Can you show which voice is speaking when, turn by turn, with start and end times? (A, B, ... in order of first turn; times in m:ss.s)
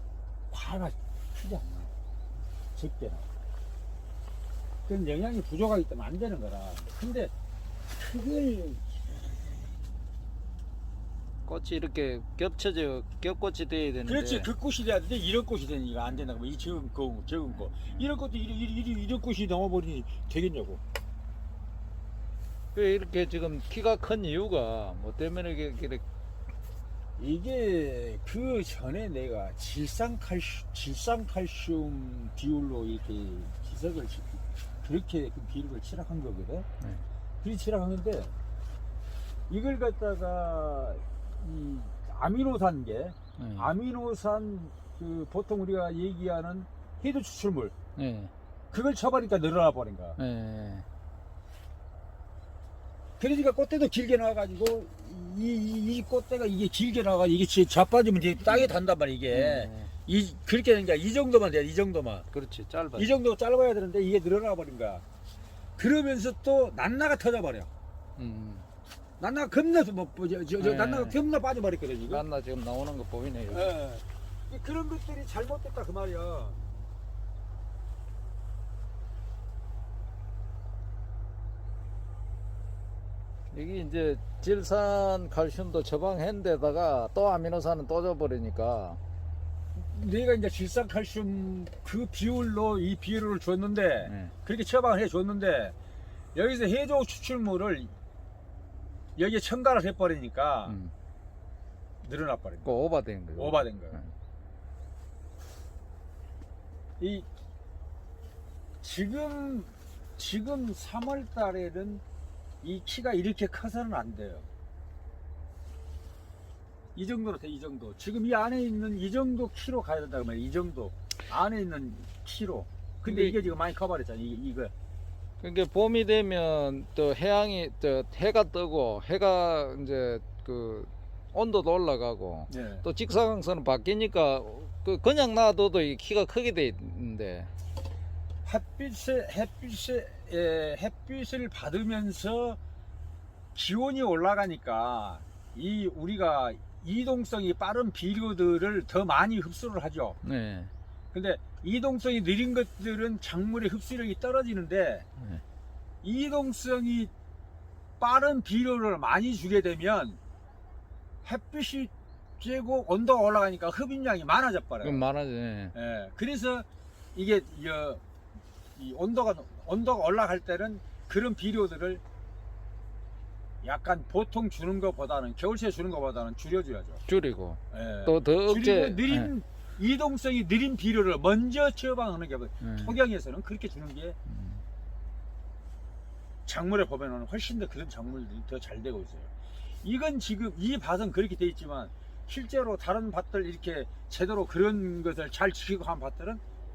0:00.5-0:01.9 A
0:02.8-0:03.3 A
0:04.8-0:07.3 A
0:08.0-0:08.8 A
0:11.4-0:14.5 B
0:14.0-0:20.8 A
0:22.7-0:26.0 B
0:27.2-0:36.7 A
0:37.4-0:38.3 A
0:39.5-0:47.7 A
0:43.4-0:43.7 B
0:48.0-0:48.3 B
0:48.7-0:50.2 A
0:50.2-0:50.8 B
0:53.2-1:02.3 A
0:58.5-0:58.8 B
0:59.3-0:59.9 B
1:02.3-1:03.1 B
1:03.0-1:05.0 A
1:05.8-1:07.7 A
1:08.2-1:08.6 B
1:09.2-1:12.2 A
1:10.6-1:11.2 B
1:12.1-1:13.7 B
1:13.5-1:16.6 A
1:23.5-1:29.0 B
1:29.7-1:35.7 A
1:34.0-1:34.3 B
1:36.3-1:37.9 A
1:39.2-1:40.8 A
1:40.6-1:40.9 B
1:42.0-1:42.7 A
1:42.6-1:44.1 B
1:43.4-1:44.0 A
1:47.0-1:47.3 A
1:48.8-1:52.0 A
1:52.6-1:54.5 A
1:56.9-2:04.7 A
2:03.0-2:03.5 B
2:05.4-2:17.5 B
2:12.5-2:12.8 A
2:18.4-2:22.6 A
2:23.5-2:30.2 A
2:30.2-2:30.7 B
2:31.1-2:35.0 A
2:35.2-2:35.4 B
2:36.0-2:37.1 A
2:38.0-2:40.2 A
2:41.2-2:45.0 A
2:44.8-2:45.7 B
2:45.7-2:48.0 A
2:48.8-2:52.0 A
2:53.6-2:57.0 A
2:57.1-2:59.3 B
2:57.7-3:04.2 A
3:02.6-3:03.0 B
3:04.3-3:04.6 B
3:06.4-3:09.3 A
3:09.8-3:16.4 A